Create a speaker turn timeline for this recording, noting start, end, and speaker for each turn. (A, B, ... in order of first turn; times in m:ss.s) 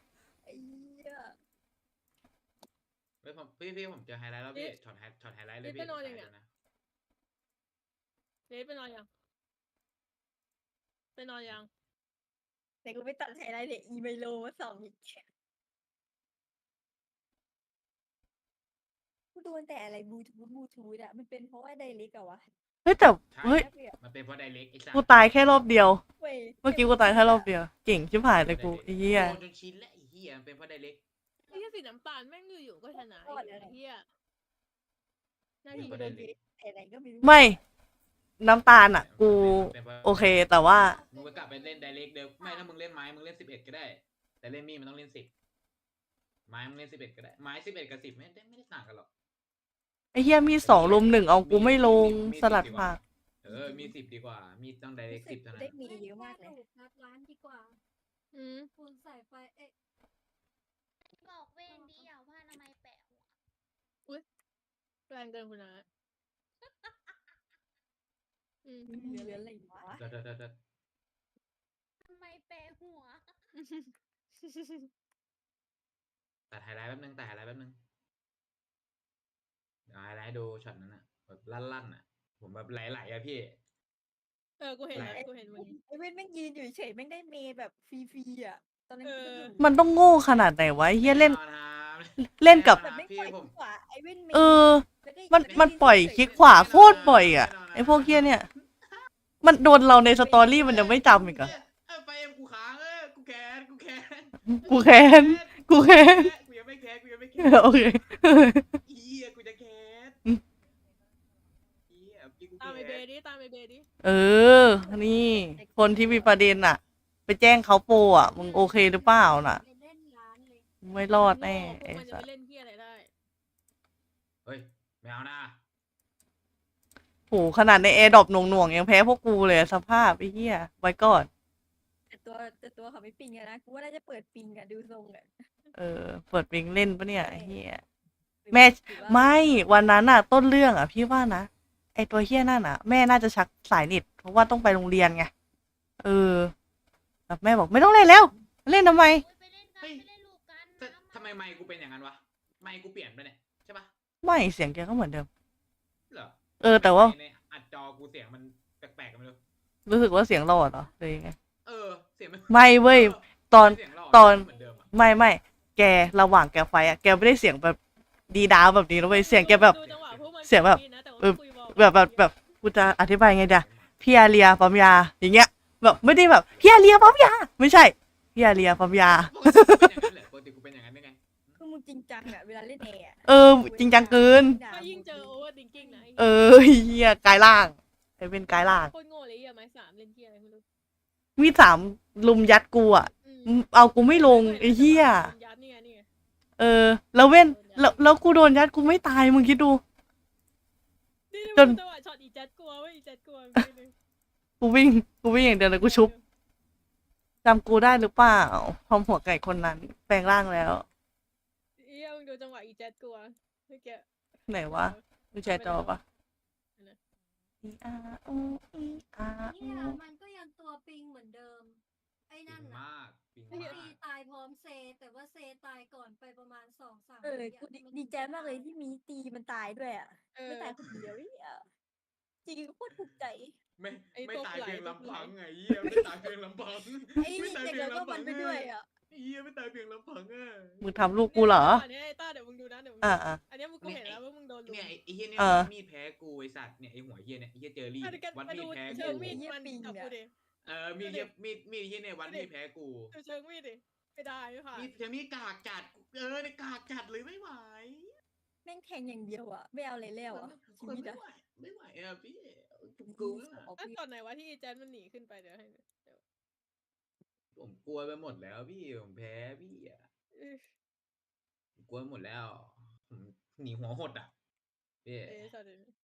0:00.4-0:01.4 A
0:03.2-0:06.5 B
0:05.6-0:06.3 C
0:08.5-0:09.1 C
0:11.2-0:11.7 C
0:12.8-0:15.2 A
0:19.3-0:22.5 A
0:22.8-0:23.6 D
0:23.3-0:25.6 B
0:23.4-0:23.9 A
0:24.9-0:26.0 D
0:26.2-0:27.5 A
0:26.6-0:29.4 D
0:28.4-0:31.0 B
0:31.5-0:34.1 C
0:32.9-0:33.8 A
0:35.6-0:36.2 C
0:35.7-0:36.3 B
0:35.8-0:37.6 A
0:37.2-0:37.6 D
0:38.4-0:41.0 D
0:38.9-0:45.3 B
0:40.6-0:42.1 E
0:46.5-0:49.1 B
0:50.1-0:53.0 D
0:50.6-0:55.7 B
0:53.5-0:53.9 A
0:55.1-0:56.6 A
0:55.8-0:57.8 E
0:58.3-0:58.7 C
0:58.8-0:59.7 E
1:01.0-1:03.4 F
1:01.7-1:02.1 E
1:05.1-1:05.9 C
1:06.6-1:07.4 F
1:08.6-1:09.4 C
1:08.9-1:10.0 A
1:10.0-1:10.6 B
1:12.0-1:13.4 F
1:13.6-1:13.9 C
1:14.5-1:14.9 C
1:16.5-1:17.8 B
1:19.9-1:23.6 B
1:24.6-1:25.8 C
1:24.9-1:25.2 B
1:25.0-1:29.7 A
1:29.0-1:29.5 C
1:29.6-1:31.4 D
1:31.0-1:33.5 B
1:32.2-1:32.8 D
1:32.8-1:37.2 A
1:34.3-1:38.5 D
1:35.4-1:38.5 B
1:39.4-1:41.5 D
1:40.1-1:41.6 A
1:40.7-1:47.8 B
1:44.6-1:46.3 D
1:47.4-1:48.8 D
1:48.8-1:50.2 B
1:51.9-1:53.1 B
1:52.6-1:53.9 C
1:54.0-1:59.6 D
1:54.7-1:56.6 A
1:58.1-2:00.7 E
2:00.8-2:02.2 D
2:01.1-2:03.1 C
2:04.4-2:05.6 B
2:07.3-2:11.3 D
2:12.1-2:15.3 A
2:15.8-2:17.8 D
2:17.1-2:17.6 A
2:18.4-2:19.7 A
2:18.5-2:25.3 D
2:18.9-2:19.5 C
2:26.0-2:26.5 D
2:27.3-2:29.2 D
2:28.7-2:31.8 F
2:29.8-2:30.1 B
2:30.8-2:33.9 B
2:34.2-2:35.3 D
2:36.1-2:39.4 B
2:36.6-2:37.2 D
2:39.9-2:41.4 D
2:41.6-2:44.9 B
2:42.5-2:47.8 D
2:48.3-2:49.8 D
2:49.1-2:52.5 C
2:49.4-2:50.3 B
2:50.5-3:00.0 D
2:53.2-2:54.0 B
2:56.4-2:56.8 B
2:59.1-3:01.6 B
3:01.6-3:06.1 A
3:03.3-3:04.6 D
3:04.7-3:06.4 C
3:06.2-3:08.9 D
3:08.8-3:10.6 C
3:11.4-3:15.3 D
3:13.2-3:16.1 C
3:16.6-3:19.8 D
3:17.4-3:18.1 C
3:21.3-3:23.9 C
3:24.6-3:26.1 D
3:25.7-3:26.2 C
3:27.4-3:30.8 D
3:31.8-3:36.0 C
3:34.5-3:36.0 D
3:37.6-3:40.0 D
3:39.5-3:42.8 E
3:42.5-3:44.0 B
3:43.5-3:43.9 C
3:43.6-3:48.7 E
3:47.2-3:51.6 A
3:50.4-3:50.8 C
3:52.5-3:53.6 A
3:53.8-4:00.8 B
3:54.1-3:55.4 C
3:57.2-3:58.9 A
4:00.8-4:01.8 D
4:01.3-4:04.9 C
4:03.0-4:03.4 D
4:03.8-4:09.4 B
4:05.4-4:05.7 D
4:08.0-4:10.3 C
4:08.9-4:10.2 A
4:10.6-4:13.1 B
4:11.0-4:11.3 C
4:12.2-4:12.5 C
4:13.1-4:14.9 C
4:14.7-4:18.2 B
4:18.6-4:21.2 A
4:20.3-4:23.7 B
4:23.1-4:24.0 A
4:23.8-4:26.2 C
4:27.6-4:30.1 B
4:30.3-4:30.7 C
4:31.8-4:34.3 B
4:35.0-4:35.5 B
4:35.3-4:35.9 C